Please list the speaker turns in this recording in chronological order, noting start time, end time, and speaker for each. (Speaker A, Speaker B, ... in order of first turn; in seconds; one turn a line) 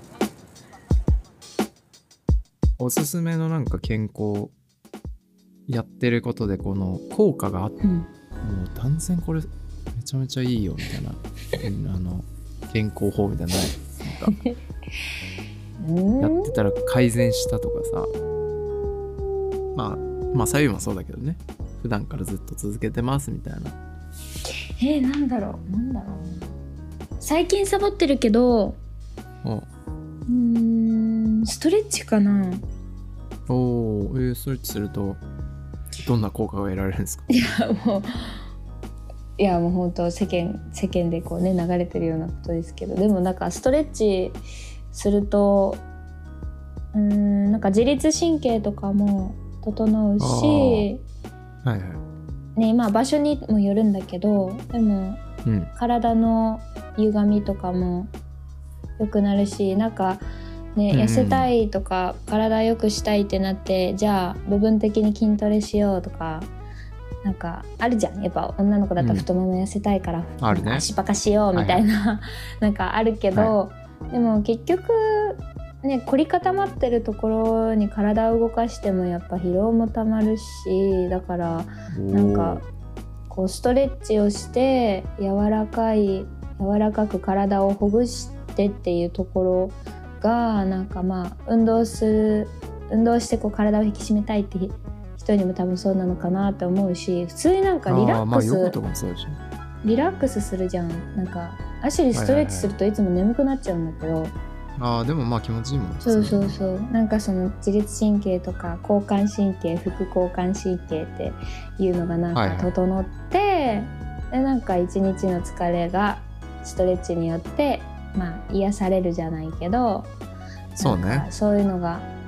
Speaker A: 2.8-4.5
Speaker A: 5.7-7.8
Speaker B: 7.8-8.1
Speaker A: 8.4-14.3
Speaker B: 14.2-14.6
Speaker B: 15.8-16.6
Speaker A: 16.2-18.1
Speaker A: 19.7-23.8
Speaker B: 24.8-26.5
Speaker B: 27.2-28.8
Speaker B: 30.3-32.6
Speaker A: 33.5-35.2
Speaker A: 36.0-37.2
Speaker B: 37.3-38.4
Speaker B: 39.4-44.4
Speaker B: 44.9-45.8
Speaker B: 46.9-51.0
Speaker A: 50.2-50.9
Speaker A: 51.6-52.0
Speaker B: 52.5-55.2
Speaker A: 55.4-55.7
Speaker B: 55.7-58.1
Speaker B: 59.0-60.2
Speaker B: 60.8-66.5
Speaker A: 60.9-61.5
Speaker B: 67.2-82.6
Speaker A: 69.0-69.3
Speaker A: 70.4-70.9
Speaker A: 71.5-71.8
Speaker A: 81.9-82.6
Speaker B: 83.3-98.8
Speaker A: 97.9-99.4
Speaker B: 99.8-104.3
Speaker A: 102.1-102.7
Speaker A: 104.8-106.5
Speaker B: 106.0-120.1
Speaker A: 112.3-112.7
Speaker B: 120.7-122.1
Speaker A: 120.8-121.3